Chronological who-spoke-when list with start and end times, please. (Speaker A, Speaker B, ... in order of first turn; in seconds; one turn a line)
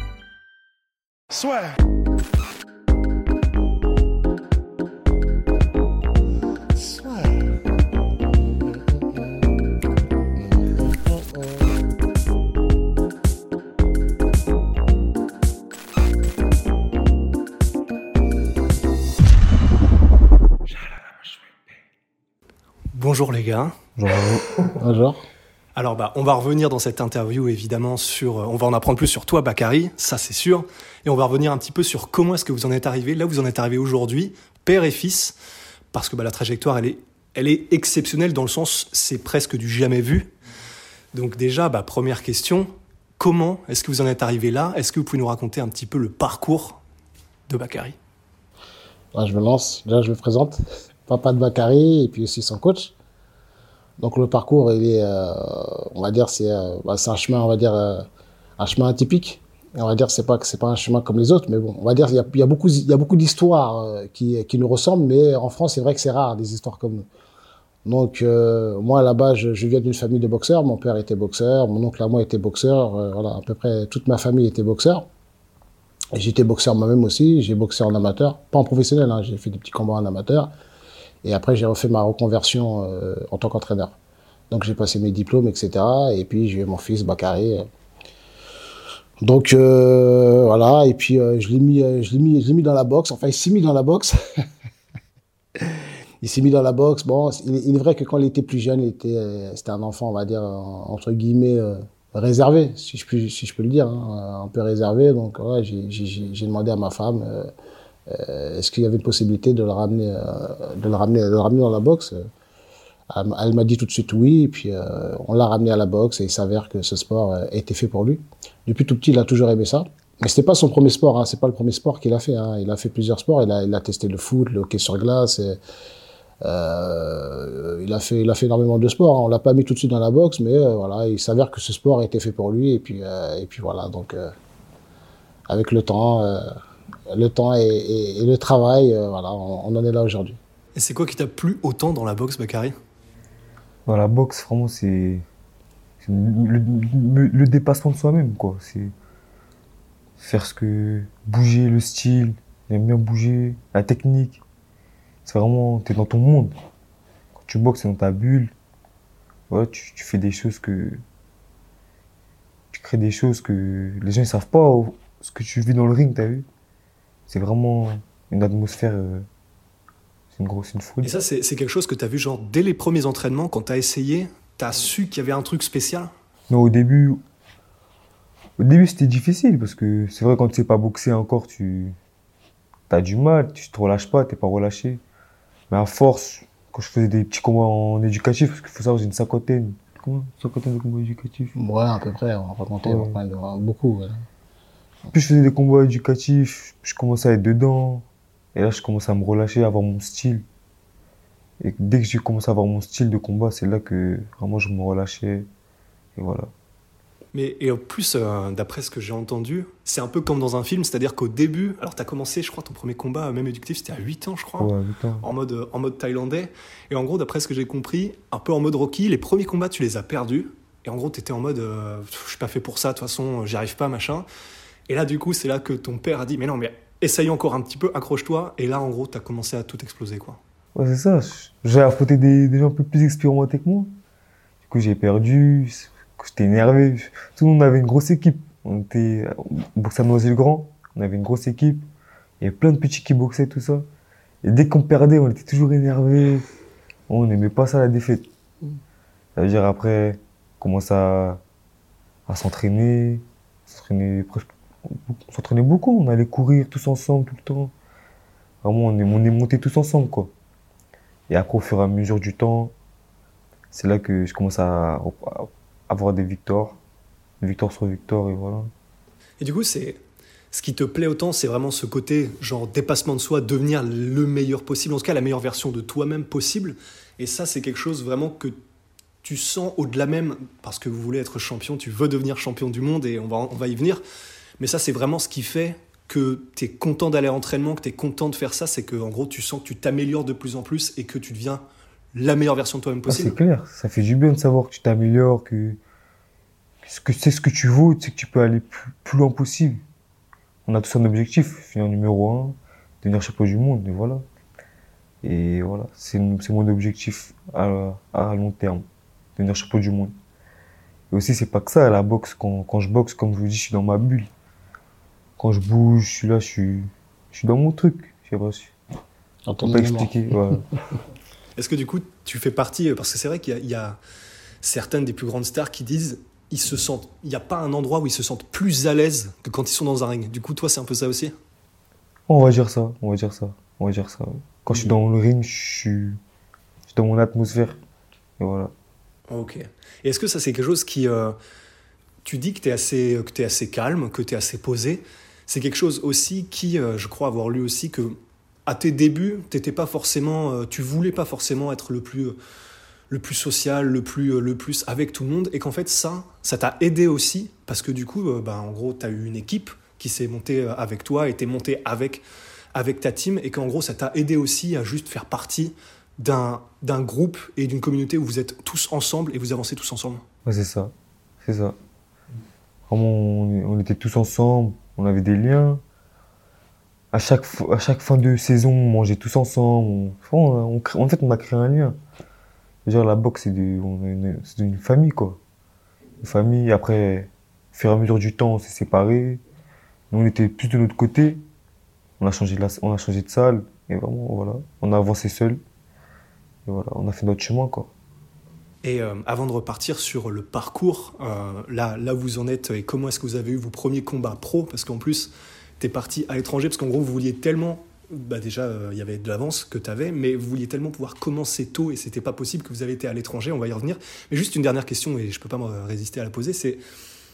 Speaker A: 22.9-23.8
Speaker B: 24.0-24.5
Speaker C: 24.8-25.2
Speaker A: 25.8-35.4
Speaker A: 35.9-40.3
Speaker A: 41.1-46.8
Speaker A: 47.5-48.0
Speaker C: 49.1-52.9
Speaker C: 54.0-58.1
Speaker C: 58.6-67.1
Speaker C: 67.8-75.1
Speaker C: 76.1-80.5
Speaker C: 81.2-84.0
Speaker C: 84.5-87.7
Speaker C: 89.2-94.2
Speaker C: 96.2-107.5
Speaker C: 108.1-112.3
Speaker C: 113.1-125.6
Speaker C: 126.4-134.3
Speaker C: 135.5-136.5
Speaker C: 137.1-140.4
Speaker A: 140.8-142.8
Speaker B: 143.9-145.3
Speaker B: 146.0-148.9
Speaker B: 150.2-154.4
Speaker B: 155.2-156.5
Speaker B: 157.4-158.5
Speaker B: 159.5-161.0
Speaker B: 162.7-166.5
Speaker B: 167.3-169.3
Speaker B: 170.3-171.2
Speaker A: 171.0-176.1
Speaker B: 176.5-177.2
Speaker B: 178.6-182.0
Speaker B: 182.9-185.0
Speaker B: 185.7-191.6
Speaker C: 191.6-194.3
Speaker B: 192.8-193.2
Speaker B: 195.1-200.5
Speaker B: 201.6-205.5
Speaker B: 206.2-206.5
Speaker A: 207.3-214.7
Speaker B: 214.6-215.3
Speaker A: 215.2-224.3
Speaker A: 224.9-230.4
Speaker B: 230.8-233.9
Speaker B: 234.6-241.9
Speaker B: 242.4-243.9
Speaker B: 244.4-246.5
Speaker B: 247.1-248.3
Speaker B: 249.4-251.4
Speaker B: 252.3-257.7
Speaker B: 258.6-260.3
Speaker B: 261.3-262.8
Speaker B: 263.7-266.8
Speaker B: 267.4-268.7
Speaker A: 269.4-270.0
Speaker A: 270.5-278.6
Speaker A: 279.2-284.0
Speaker A: 284.6-291.6
Speaker A: 292.1-293.4
Speaker B: 293.1-295.8
Speaker B: 296.8-299.8
Speaker B: 300.7-304.2
Speaker B: 305.2-310.1
Speaker B: 311.1-314.3
Speaker B: 315.4-318.7
Speaker C: 319.5-320.1
Speaker B: 319.6-320.7
Speaker A: 321.6-324.0
Speaker A: 324.6-331.3
Speaker B: 332.3-336.2
Speaker B: 336.9-337.8
Speaker B: 338.4-338.7
Speaker A: 339.3-341.4
Speaker A: 342.2-352.4
Speaker A: 353.1-362.2
Speaker A: 362.7-370.2
Speaker B: 370.5-371.8
Speaker B: 372.9-375.8
Speaker B: 377.1-382.0
Speaker B: 382.9-385.4
Speaker B: 386.2-389.4
Speaker B: 390.1-391.4
Speaker B: 392.2-395.6
Speaker B: 396.7-397.9
Speaker A: 398.8-416.8